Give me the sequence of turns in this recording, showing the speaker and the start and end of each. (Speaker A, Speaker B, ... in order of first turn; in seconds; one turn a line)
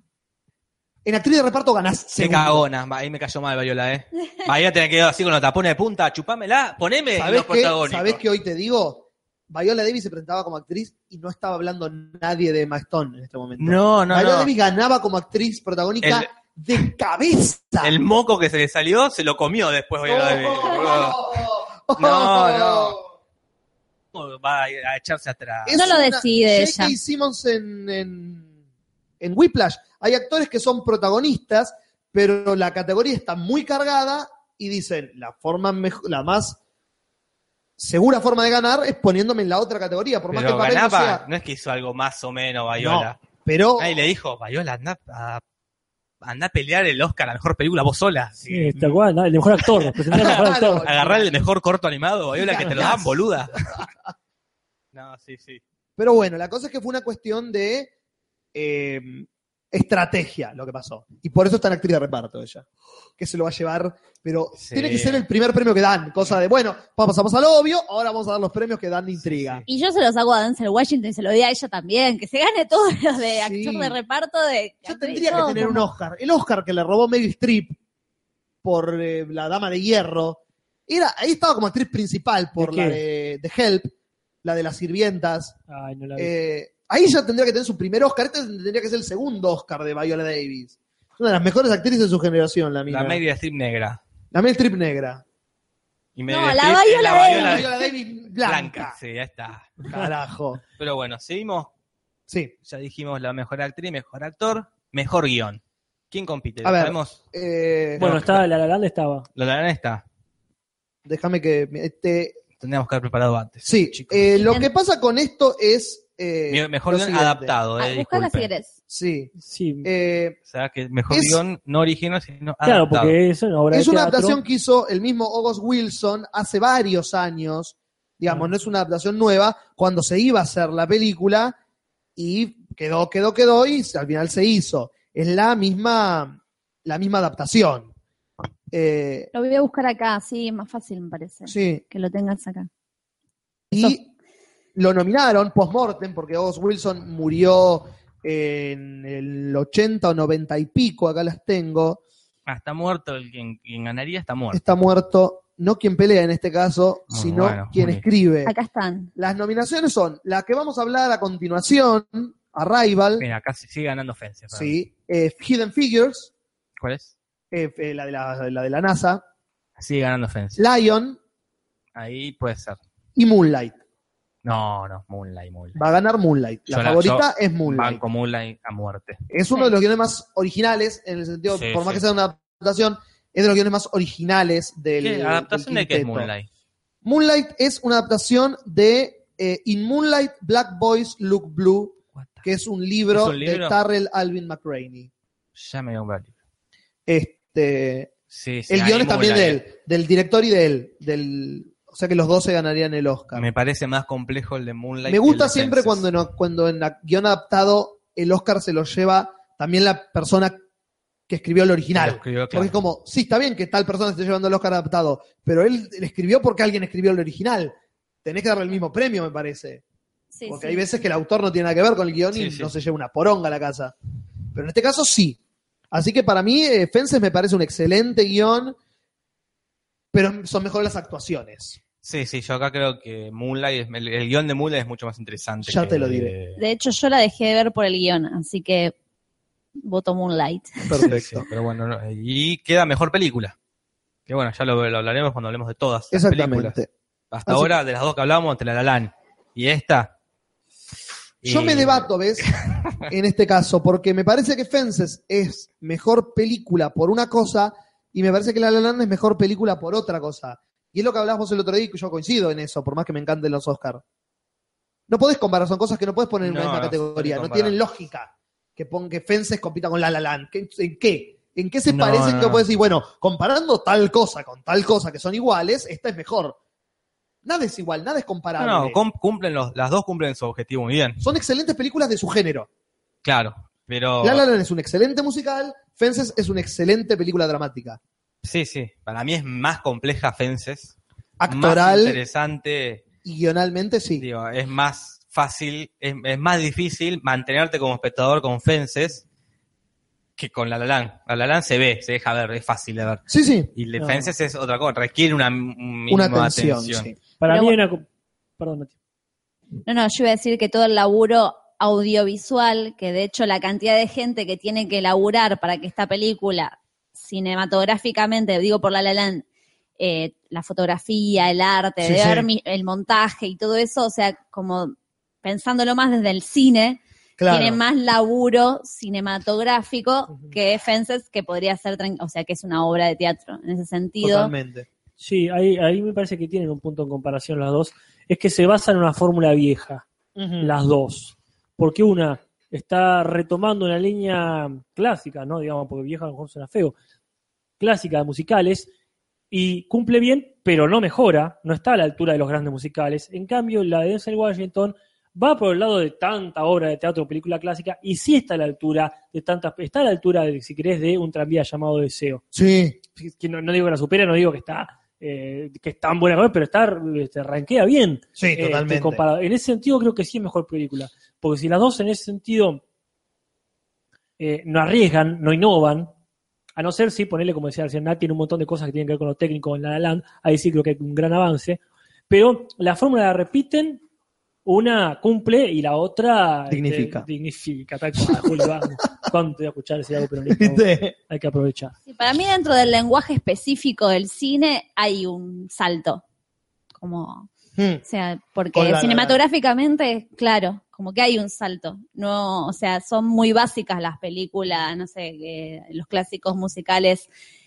Speaker A: 1.0-2.6
Speaker B: 2.2-8.2
Speaker A: 7.1-17.9
Speaker B: 13.6-14.5
Speaker B: 16.0-16.3
Speaker B: 17.8-21.2
Speaker A: 20.0-23.0
Speaker B: 22.0-23.0
Speaker B: 24.1-25.9
Speaker A: 25.6-28.5
Speaker C: 25.7-26.9
Speaker A: 29.2-36.6
Speaker A: 37.8-41.2
Speaker B: 40.3-43.2
Speaker A: 42.8-44.0
Speaker B: 43.8-45.4
Speaker B: 46.2-49.0
Speaker D: 48.5-50.9
Speaker B: 49.6-53.8
Speaker A: 50.1-51.4
Speaker A: 52.3-53.3
Speaker B: 54.9-55.6
Speaker A: 56.0-57.9
Speaker A: 58.5-62.6
Speaker A: 63.2-69.6
Speaker B: 64.6-65.2
Speaker B: 69.3-69.7
Speaker C: 69.7-75.8
Speaker A: 73.3-74.0
Speaker A: 74.8-77.8
Speaker A: 78.6-83.9
Speaker D: 82.6-83.0
Speaker A: 84.4-85.5
Speaker D: 85.7-86.3
Speaker A: 86.2-93.2
Speaker B: 92.9-94.0
Speaker A: 94.3-95.2
Speaker B: 96.2-97.7
Speaker C: 96.3-97.9
Speaker A: 97.1-99.0
Speaker B: 98.4-99.8
Speaker A: 99.9-100.6
Speaker B: 100.8-101.7
Speaker A: 102.3-102.5
Speaker B: 102.7-107.2
Speaker A: 106.6-108.4
Speaker D: 108.0-109.3
Speaker B: 109.3-110.0
Speaker A: 111.0-112.4
Speaker B: 112.6-114.4
Speaker A: 113.6-117.5
Speaker C: 114.4-114.7
Speaker B: 116.5-118.5
Speaker C: 117.8-118.7
Speaker A: 118.9-119.3
Speaker D: 119.4-119.9
Speaker A: 119.8-120.4
Speaker B: 120.5-123.1
Speaker A: 121.1-121.4
Speaker D: 122.6-124.4
Speaker A: 123.7-131.6
Speaker A: 132.2-137.9
Speaker A: 138.7-139.3
Speaker C: 139.3-142.7
Speaker A: 141.5-141.8
Speaker A: 143.7-144.1
Speaker A: 144.7-152.0
Speaker B: 152.5-154.7
Speaker A: 154.5-158.5
Speaker B: 157.1-158.0
Speaker C: 158.4-159.1
Speaker A: 159.2-163.3
Speaker B: 163.2-164.7
Speaker A: 164.5-166.3
Speaker B: 166.8-167.1
Speaker A: 167.5-169.2
Speaker B: 169.8-170.6
Speaker A: 170.6-171.2
Speaker B: 171.9-172.8
Speaker A: 173.2-173.8
Speaker B: 174.4-175.8
Speaker A: 175.7-178.0
Speaker B: 176.7-179.2
Speaker A: 179.3-186.3
Speaker B: 181.5-182.0
Speaker B: 185.0-186.4
Speaker A: 187.0-195.1
Speaker B: 192.2-192.4
Speaker B: 193.1-193.8
Speaker B: 195.6-196.3
Speaker A: 197.1-198.1
Speaker B: 198.3-199.6
Speaker A: 198.7-203.4
Speaker B: 203.3-206.0
Speaker A: 205.1-210.6
Speaker A: 211.3-219.8
Speaker B: 211.9-212.8
Speaker C: 220.3-220.8
Speaker A: 220.4-223.9
Speaker B: 222.3-222.7
Speaker A: 224.5-225.4
Speaker A: 225.9-228.8
Speaker A: 230.1-231.8
Speaker B: 232.0-236.6
Speaker A: 235.6-236.3
Speaker C: 236.6-238.9
Speaker C: 239.8-241.1
Speaker A: 240.9-241.5
Speaker B: 241.0-243.5
Speaker B: 244.3-246.7
Speaker A: 246.1-246.9
Speaker B: 247.3-250.1
Speaker B: 251.4-253.0
Speaker A: 251.4-252.5
Speaker A: 253.1-264.0
Speaker A: 265.1-276.6
Speaker B: 266.4-267.8
Speaker B: 271.9-272.6
Speaker A: 277.4-279.0
Speaker B: 278.6-281.2
Speaker A: 281.2-282.7
Speaker B: 283.2-284.4
Speaker A: 284.2-288.0
Speaker B: 288.4-290.9
Speaker A: 291.4-292.2
Speaker B: 291.5-293.0
Speaker A: 293.2-294.2
Speaker B: 294.2-299.2
Speaker B: 300.4-303.2
Speaker A: 303.3-303.7
Speaker B: 303.7-307.1
Speaker D: 304.0-304.3
Speaker A: 306.1-307.1
Speaker D: 307.4-308.0
Speaker C: 307.4-307.8
Speaker D: 308.6-308.9
Speaker C: 309.9-319.4
Speaker C: 320.0-334.5
Speaker A: 322.0-322.5
Speaker A: 327.4-327.8
Speaker A: 334.2-334.9
Speaker D: 335.2-340.0
Speaker A: 340.4-340.7
Speaker D: 340.6-346.9
Speaker D: 347.8-348.9
Speaker D: 349.5-362.4
Speaker A: 362.5-363.0
Speaker D: 363.1-372.8
Speaker A: 368.4-369.2
Speaker D: 374.4-376.1
Speaker D: 376.8-384.0
Speaker D: 384.6-391.9
Speaker A: 386.7-387.3
Speaker A: 388.3-388.6
Speaker A: 390.5-391.1
Speaker C: 392.1-396.2
Speaker C: 396.9-397.5
Speaker A: 397.8-398.0
Speaker C: 398.1-407.3
Speaker A: 398.7-399.4